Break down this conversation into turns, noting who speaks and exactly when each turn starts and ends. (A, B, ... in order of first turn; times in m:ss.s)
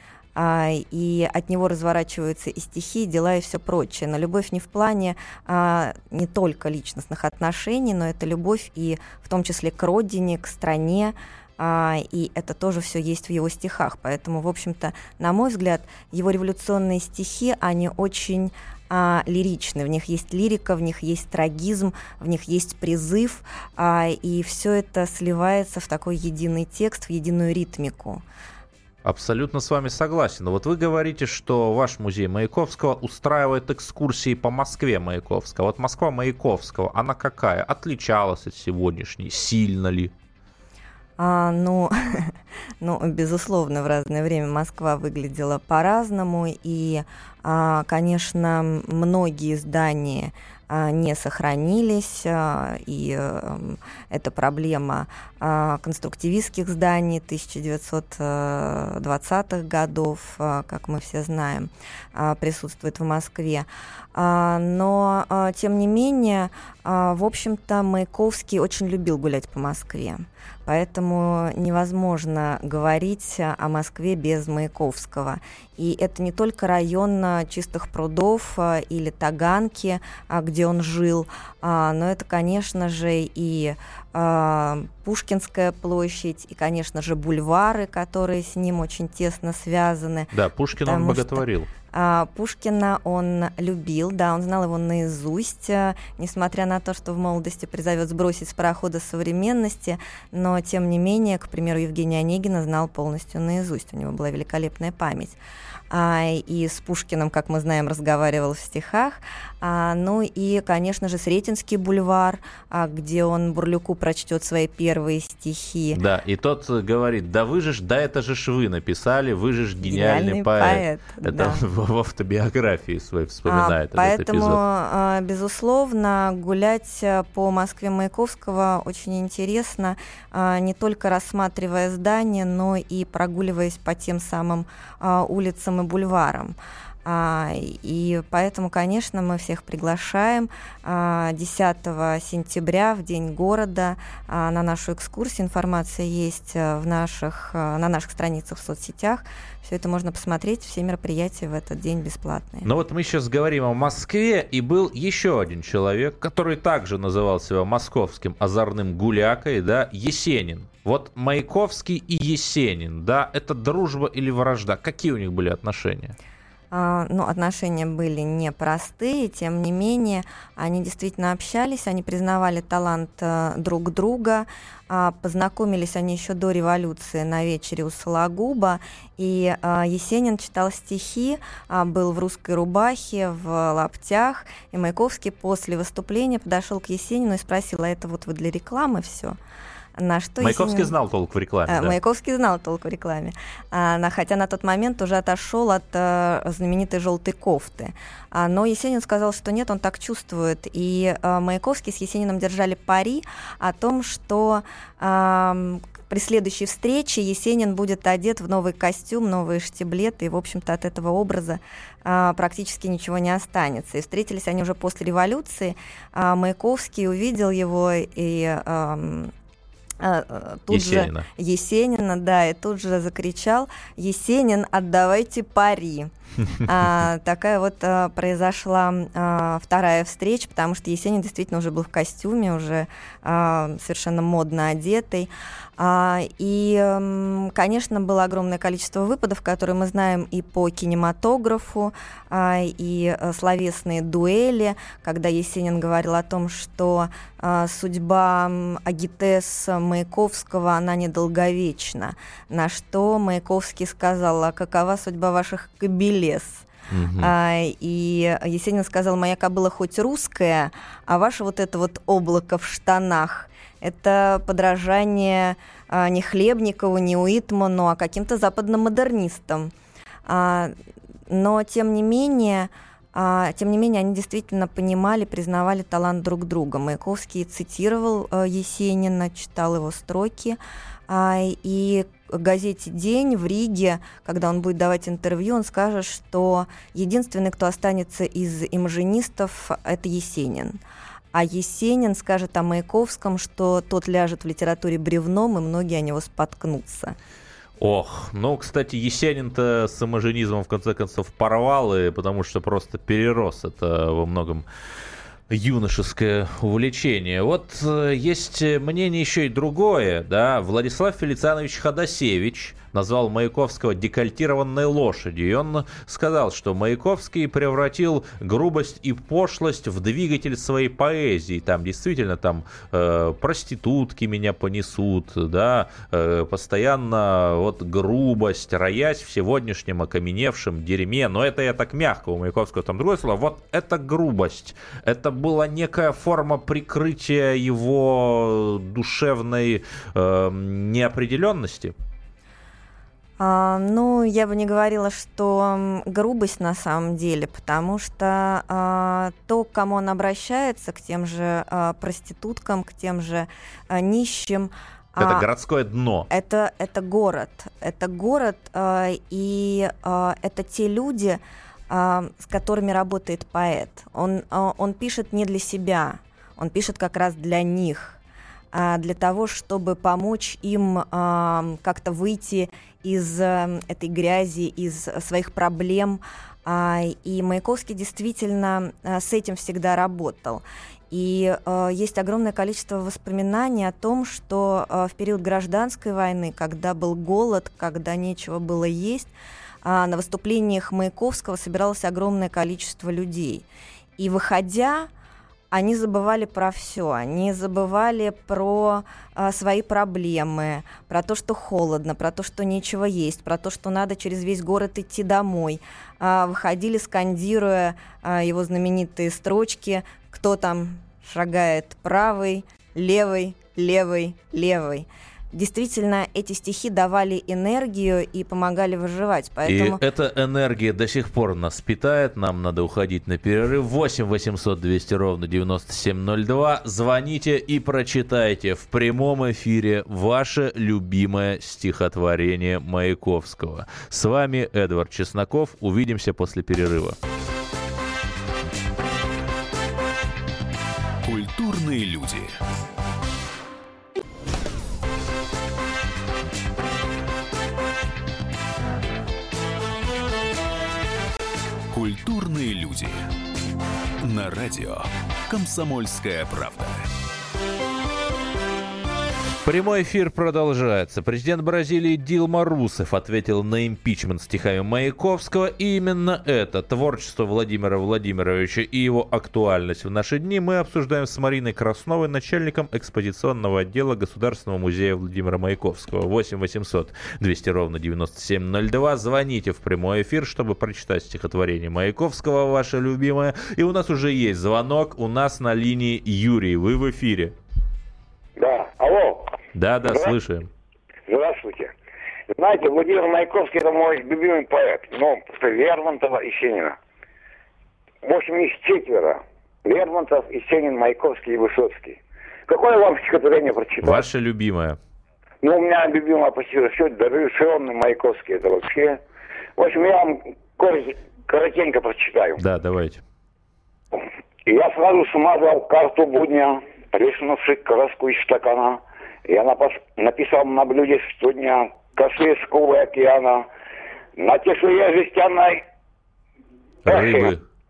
0:00.4-0:28.2 A
0:29.0-0:40.1 B
0:41.2-1:45.4 A
1:30.3-1:31.7 B
1:45.9-1:56.0 A
1:55.9-2:04.6 B
1:59.8-2:01.6 A
2:03.5-2:32.7 A
2:32.6-2:46.2 B
2:46.7-3:09.4 A
3:10.0-3:10.9 A
3:10.4-3:12.0 B
3:11.7-3:39.3 A
3:40.0-4:16.7 A
3:40.7-3:41.3 B
4:16.9-4:17.3 B
4:17.2-4:29.7 A
4:30.3-4:30.7 A
4:31.3-4:50.8 A
4:51.3-4:57.2 A
4:57.8-5:04.7 B
5:05.5-5:42.0 B
5:43.4-5:55.5 A
5:55.2-5:56.3 B
5:56.3-6:08.2 A
6:08.7-6:29.3 A
6:29.8-6:33.6 A
6:34.2-6:35.1 A
6:35.7-7:00.0 A
6:59.7-7:17.2 B
7:21.2-7:22.6 C
7:31.9-7:33.3 C
7:34.2-7:37.1 C
7:39.6-8:07.6 B
8:08.6-8:09.5 D
8:09.7-8:10.7 B
8:10.1-8:10.3 D
8:11.3-8:11.9 D
8:12.5-8:17.0 D
8:18.2-8:24.2 D
8:24.0-8:25.0 B
8:25.6-8:29.2 D
8:29.8-8:32.6 D
8:32.6-8:33.2 B
8:34.1-8:43.7 D
8:44.4-8:45.8 D
8:47.0-8:47.6 B
8:47.1-8:47.5 D